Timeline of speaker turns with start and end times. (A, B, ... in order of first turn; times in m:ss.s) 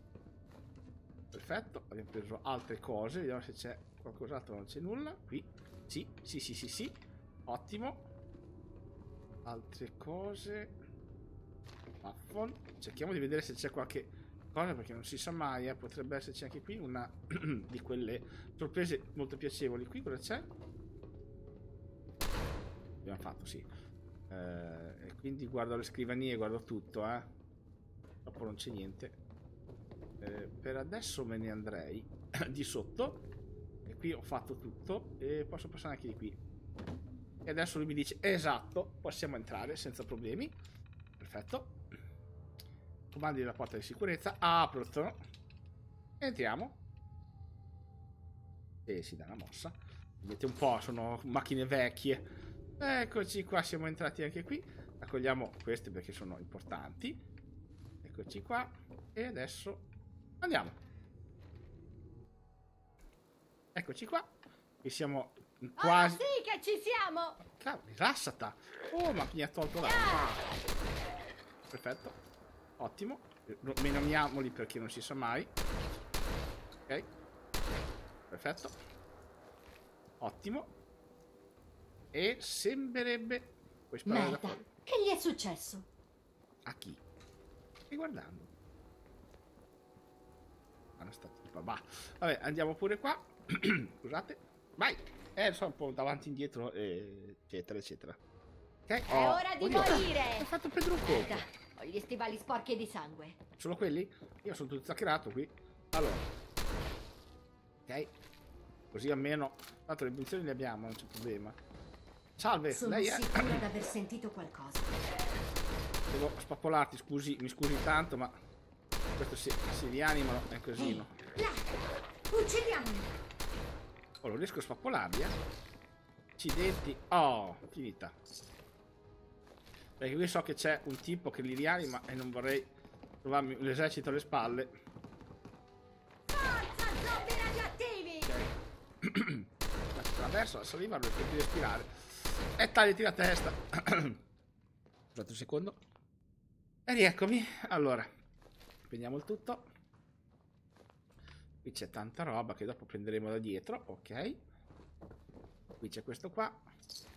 0:01.3-0:08.1 A
0:09.4-0:10.7 A
0:12.0-0:20.5 A
0:23.0-0:23.7 A
0:24.3-0:27.3 A
0:28.2-0:29.2 A
0:30.2-0:33.3 A
0:33.8-0:36.4 A
0:37.4-0:40.5 A
0:41.2-0:41.8 A
0:43.1-0:45.2 A
0:46.2-0:46.8 A
0:48.8-0:52.3 A
0:52.8-0:57.2 A
0:58.0-0:59.9 A
1:00.4-1:00.7 A
1:03.7-1:04.3 A
1:04.8-1:06.2 A
1:05.8-1:07.4 B
1:07.4-1:10.4 A
1:09.8-1:10.4 B
1:11.7-1:12.2 A
1:12.8-1:15.5 A
1:18.3-1:18.8 A
1:20.2-1:20.7 A
1:22.1-1:24.7 A
1:24.0-1:25.9 B
1:26.6-1:27.0 A
1:27.9-1:28.5 A
1:31.0-1:38.2 A
1:38.9-1:41.4 A
1:39.1-1:40.5 B
1:41.0-1:43.4 B
1:43.6-1:46.3 A
1:47.9-1:48.1 A
1:48.9-1:51.6 A
1:52.4-1:53.6 A
1:52.7-1:54.9 B
1:56.1-1:58.3 A
1:59.2-2:01.2 A
2:00.8-2:01.6 B
2:02.3-2:03.1 B
2:04.2-2:05.4 A
2:06.4-2:08.1 A
2:10.0-2:14.7 A
2:16.3-2:18.4 B
2:18.3-2:24.2 A
2:25.1-2:25.8 A
2:26.9-2:28.1 A
2:28.8-2:29.7 A
2:31.6-2:34.4 A
2:35.8-2:36.6 A